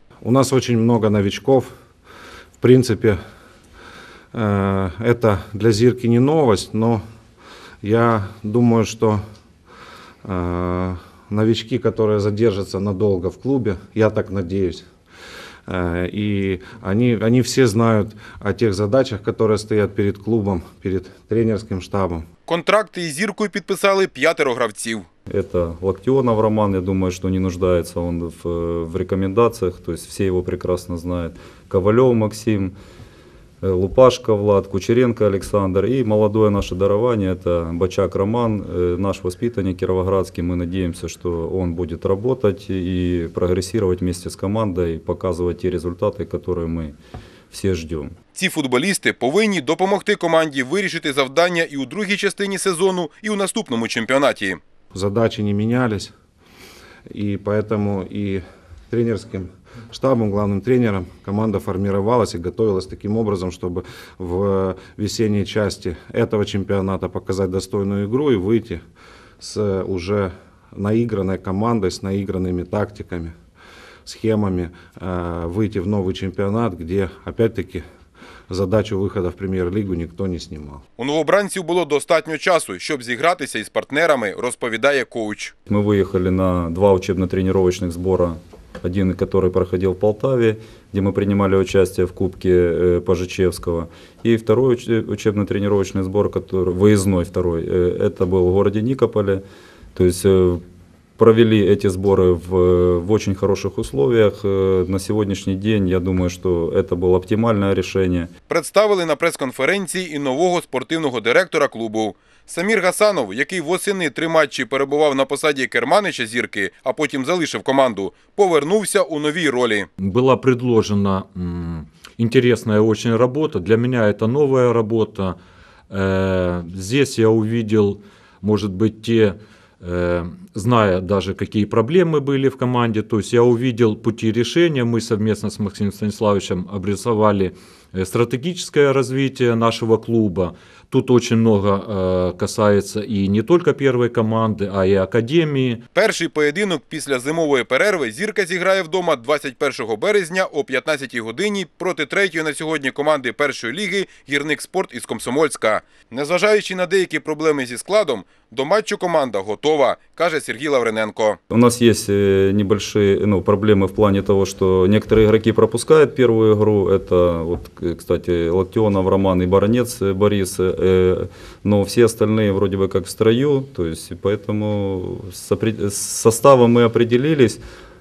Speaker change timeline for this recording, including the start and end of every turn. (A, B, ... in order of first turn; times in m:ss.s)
0:00.2-0:01.7 A
0:02.6-0:03.2 A
0:04.3-0:07.0 A
0:07.8-0:09.2 A
0:10.2-0:14.8 A
0:15.7-0:22.2 A
0:22.5-0:25.1 B
0:25.3-0:32.8 C
0:33.6-0:47.0 C
0:47.5-0:48.1 C
0:48.3-0:54.6 B
0:54.9-0:56.1 A
0:57.1-1:08.8 A
1:09.4-1:13.3 A
1:14.1-1:17.8 A
1:18.5-1:20.8 A
1:21.0-1:25.5 B
1:25.7-1:39.4 C
1:40.0-1:40.6 C
1:41.2-1:48.3 C
1:48.5-1:59.9 B
2:00.0-2:05.4 D
2:05.9-2:25.8 D
2:25.9-2:41.4 B
2:41.5-2:57.6 C